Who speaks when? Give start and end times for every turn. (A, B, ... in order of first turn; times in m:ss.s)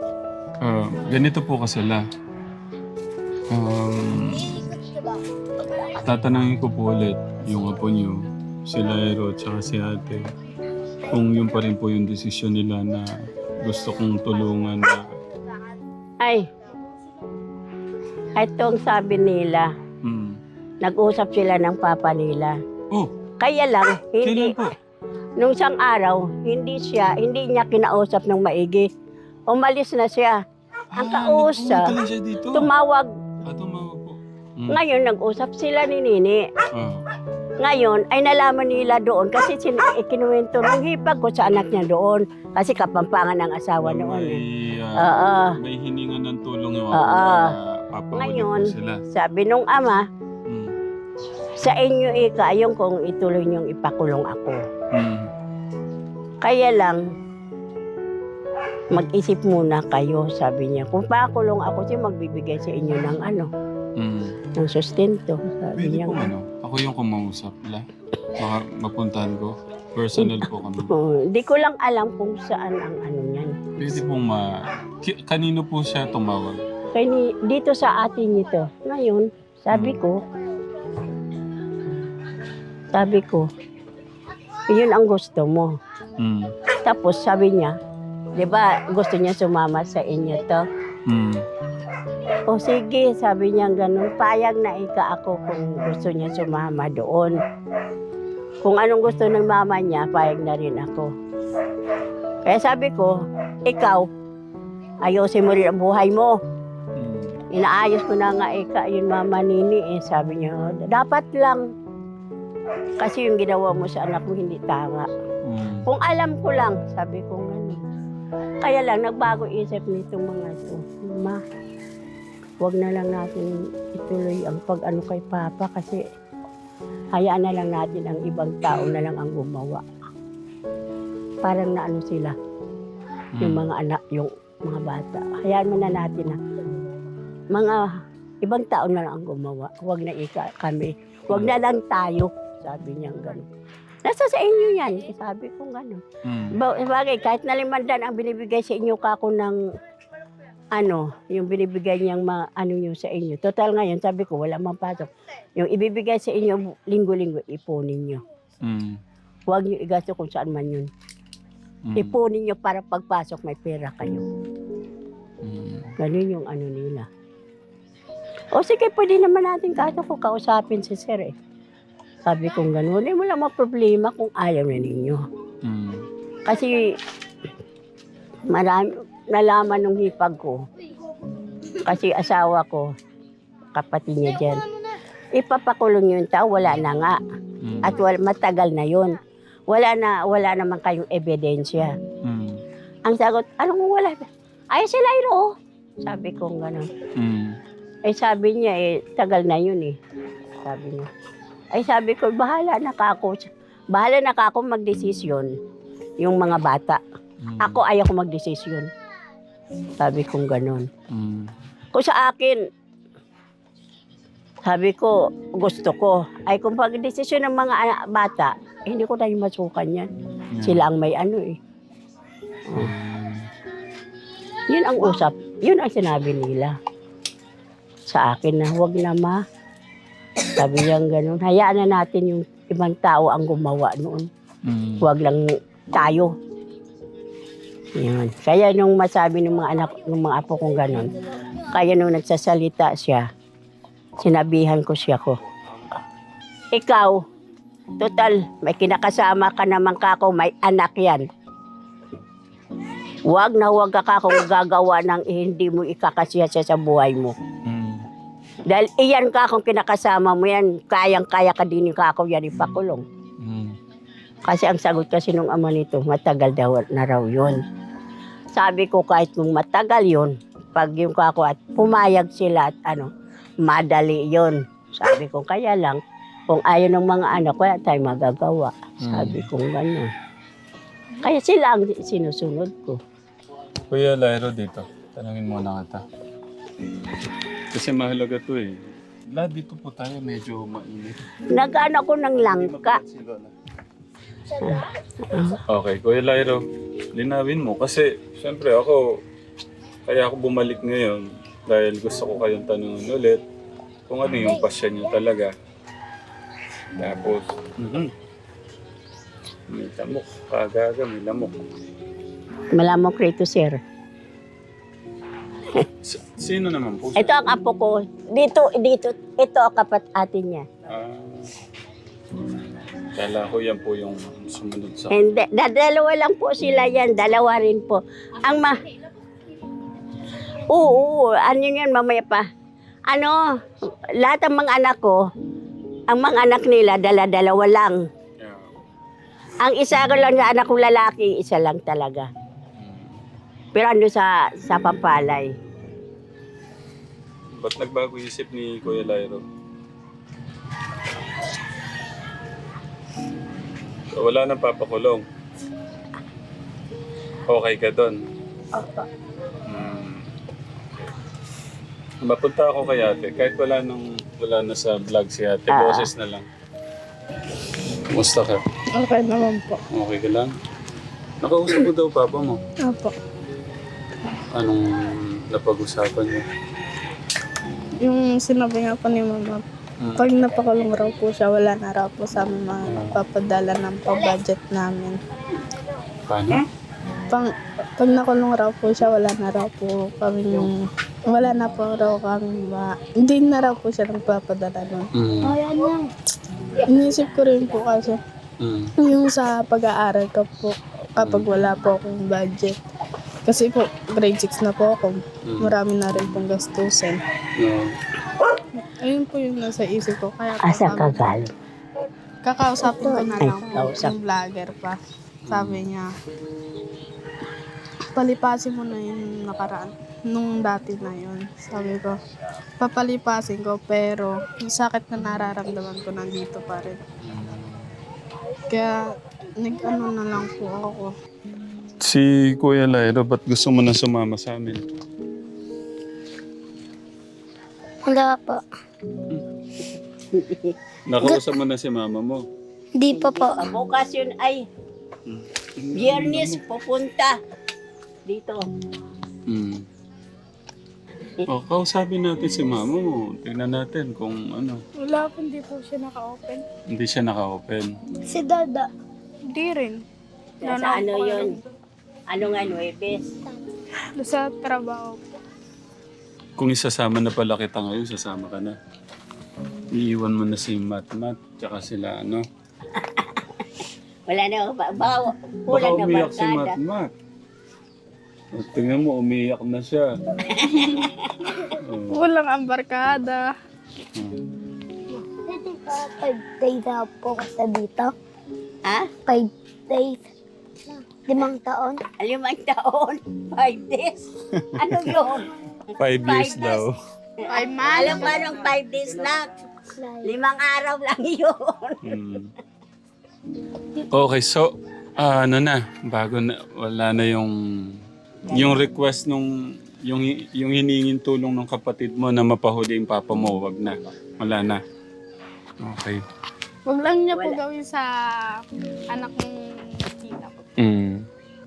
0:00.6-0:02.1 A
0:03.5-0:04.7 A
0:04.7-0:05.1 B
0:06.0-0:10.3 A
0:11.1-0:15.1 A
0:16.2-0:16.5 C
0:18.4-0:19.7 C
0:20.0-0:20.4 A
0:20.8-0:22.6 C
0:23.4-0:24.6 C
0:24.2-0:24.7 A
0:25.4-0:28.9 C
0:29.5-0:30.4 C
0:30.9-0:32.7 A
0:31.0-0:31.9 C
0:32.5-0:33.1 C
0:33.4-0:34.8 A
0:34.7-0:36.5 C
0:36.7-0:37.1 A
0:37.6-0:44.4 C
0:43.8-0:49.0 A
0:45.0-0:45.6 C
0:46.9-0:47.6 C
0:48.1-0:50.0 C
0:50.5-0:50.8 A
0:51.6-0:54.6 C
0:54.9-0:55.3 A
0:56.4-0:57.0 C
0:58.9-1:03.5 C
1:04.0-1:04.4 A
1:04.6-1:06.2 C
1:05.8-1:10.9 A
1:10.2-1:13.6 C
1:13.8-1:16.6 A
1:16.9-1:20.2 C
1:19.7-1:20.0 A
1:22.9-1:23.5 C
1:24.7-1:25.8 C
1:26.2-1:26.5 A
1:26.8-1:27.7 C
1:28.4-1:30.6 C
1:31.1-1:31.5 A
1:32.5-1:37.4 C
1:38.6-1:41.1 C
1:42.4-1:44.1 C
1:45.0-1:46.4 C
1:47.0-1:47.4 A
1:47.5-1:51.6 C
1:53.0-1:55.1 C
1:55.4-1:55.9 A
1:55.9-1:57.8 C
1:58.6-2:01.4 C
2:02.6-2:06.0 C
2:07.1-2:09.8 C
2:11.4-2:12.4 C
2:13.4-2:13.7 A
2:13.4-2:16.4 C
2:17.5-2:23.5 C
2:21.3-2:21.6 A
2:24.0-2:26.0 C
2:26.2-2:26.6 A
2:26.5-2:29.6 C
2:30.7-2:38.2 C
2:38.6-2:39.0 A
2:39.5-2:40.9 C
2:41.9-2:42.2 A
2:42.0-2:44.3 C
2:45.4-2:45.9 A
2:46.0-2:47.1 C
2:48.5-2:51.3 C
2:52.3-2:55.2 C
2:55.6-2:56.1 A
2:56.4-2:57.0 C
2:58.5-3:00.6 C
3:01.8-3:02.9 C
3:03.7-3:04.6 C
3:05.4-3:07.2 C
3:07.6-3:08.0 A
3:07.8-3:09.2 C
3:09.7-3:12.0 C
3:12.2-3:12.6 A
3:13.1-3:15.5 C
3:16.0-3:16.9 C
3:17.2-3:17.6 A
3:18.1-3:20.0 C
3:20.6-3:21.1 C
3:21.7-3:25.5 C
3:26.2-3:27.0 C
3:27.4-3:27.8 A
3:27.6-3:28.9 C
3:30.0-3:30.9 C
3:31.1-3:31.5 A
3:31.9-3:32.6 C
3:34.6-3:40.1 C
3:40.5-3:40.8 A
3:40.6-3:41.6 C
3:42.7-3:42.9 C
3:42.7-3:43.5 A
3:44.7-3:46.8 C
3:48.1-3:49.4 C
3:50.6-3:54.3 C
3:54.6-3:55.0 A
3:55.0-3:56.3 C
3:58.0-4:01.1 C
4:01.7-4:03.3 C
4:04.2-4:05.4 C
4:06.7-4:07.2 C
4:08.0-4:11.3 C
4:13.3-4:17.4 C
4:17.6-4:18.1 A
4:18.7-4:23.0 C
4:23.4-4:23.8 A
4:24.5-4:27.6 C
4:28.5-4:33.1 C
4:33.6-4:40.1 C
4:39.0-4:39.5 A
4:41.2-4:43.0 C
4:43.9-4:46.0 A
4:47.7-4:51.2 A
4:51.5-4:53.0 C
4:52.4-4:53.5 A
4:54.6-4:55.6 C
4:55.7-4:59.2 A
5:00.1-5:03.4 A
5:04.1-5:05.5 A
5:07.0-5:08.1 A
5:09.7-5:11.7 A
5:12.7-5:13.8 C
5:16.0-5:17.4 A
5:17.2-5:20.7 C
5:20.9-5:21.5 A
5:23.2-5:25.2 A
5:25.1-5:28.8 C
5:30.7-5:32.5 C
5:33.1-5:35.2 C
5:36.1-5:38.0 C
5:38.4-5:38.7 A
5:39.6-5:42.3 C
5:42.8-5:43.2 A
5:43.8-5:45.5 C
5:47.5-5:49.4 A
5:54.2-5:55.2 A
5:57.5-5:58.2 A
5:58.8-5:59.1 D
5:59.6-6:00.3 A
6:02.2-6:06.5 A
6:05.7-6:06.1 C
6:08.1-6:08.6 A
6:09.0-6:09.8 D
6:09.9-6:10.5 A
6:11.4-6:12.6 A
6:12.8-6:13.1 D
6:14.5-6:16.5 A
6:18.0-6:19.6 D
6:20.0-6:20.3 A
6:20.2-6:25.2 D
6:22.9-6:23.2 A
6:26.3-6:26.7 A
6:27.3-6:35.1 D
6:35.2-6:35.6 A
6:35.4-6:36.1 B
6:36.8-6:38.2 D
6:38.6-6:38.9 A
6:39.0-6:42.8 D
6:41.2-6:41.5 A
6:43.4-6:47.2 D
6:45.5-6:45.8 A
6:47.6-6:48.0 A
6:48.9-6:51.3 D
6:50.6-6:51.5 C
6:52.4-6:55.0 D
6:52.9-6:53.4 B
6:53.4-6:54.1 C
6:55.5-6:55.8 A
6:55.5-6:56.1 D
6:58.2-7:02.2 D
7:02.8-7:07.0 D
7:07.2-7:08.0 A
7:08.7-7:11.1 D
7:12.0-7:14.8 A
7:18.0-7:18.6 B
7:20.3-7:20.7 C
7:21.1-7:22.4 A
7:23.0-7:23.6 B
7:23.1-7:24.6 C
7:25.3-7:26.6 A
7:26.0-7:27.4 C
7:28.3-7:28.6 C
7:29.5-7:29.9 A
7:31.5-7:34.8 A
7:35.0-7:36.6 D
7:36.9-7:37.9 A
7:38.3-7:38.9 B
7:39.5-7:40.0 D
7:40.6-7:41.5 C
7:40.6-7:41.6 D
7:42.3-7:43.3 C
7:42.4-7:42.8 A
7:44.2-7:45.2 D
7:46.6-7:48.8 A
7:49.9-7:52.4 A
7:54.3-7:56.8 C
7:55.7-7:57.1 A
7:58.5-8:00.1 A
8:00.5-8:01.3 C
8:01.8-8:02.2 A
8:02.1-8:03.5 D
8:04.2-8:04.4 A
8:05.1-8:08.1 B
8:09.3-8:10.2 B
8:10.9-8:12.0 B
8:12.2-8:14.2 C
8:14.5-8:15.2 A
8:14.8-8:15.5 C
8:16.0-8:17.0 A
8:16.2-8:16.8 C
8:17.5-8:18.6 D
8:17.8-8:19.5 C
8:20.0-8:20.4 B
8:20.2-8:22.1 C
8:22.0-8:22.5 A
8:24.1-8:34.8 A
8:35.8-8:36.2 A
8:36.9-8:40.7 D
8:37.3-8:37.6 C
8:40.8-8:41.3 A